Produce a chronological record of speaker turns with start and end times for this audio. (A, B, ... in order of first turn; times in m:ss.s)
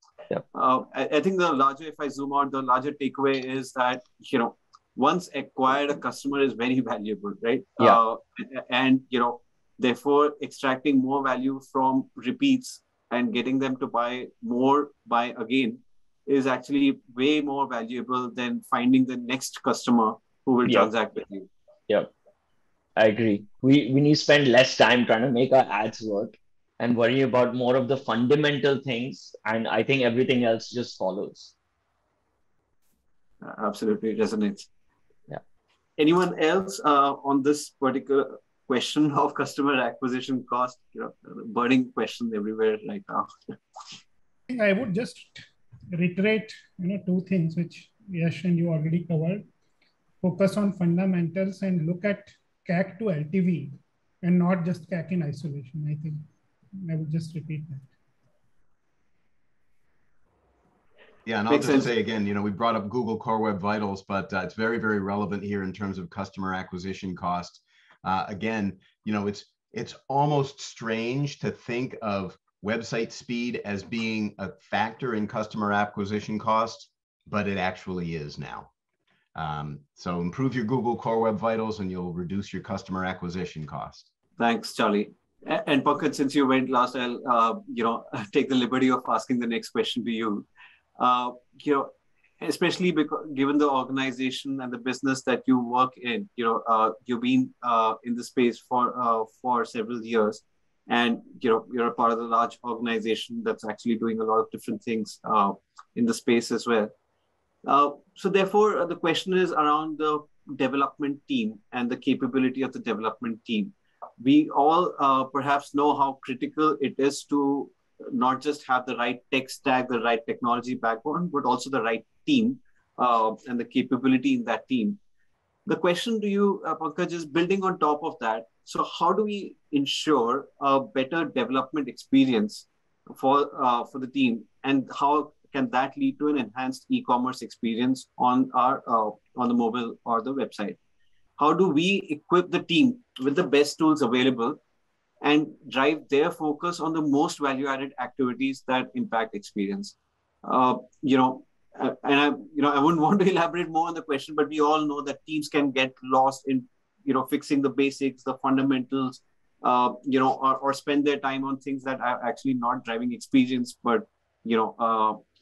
0:00.5-0:21.5 A
0:23.0-0:31.5 B
0:33.4-0:34.7 A
0:36.0-0:43.3 A
0:44.5-0:49.4 C
0:50.2-0:56.2 C
0:56.8-0:57.8 C
1:01.2-1:18.7 D
1:01.5-1:01.9 A
1:19.3-1:24.0 D
1:24.4-1:30.5 A
1:31.0-1:46.9 A
1:47.6-2:05.0 A
2:05.6-2:20.8 A
2:21.4-2:24.6 A
2:25.2-2:45.2 A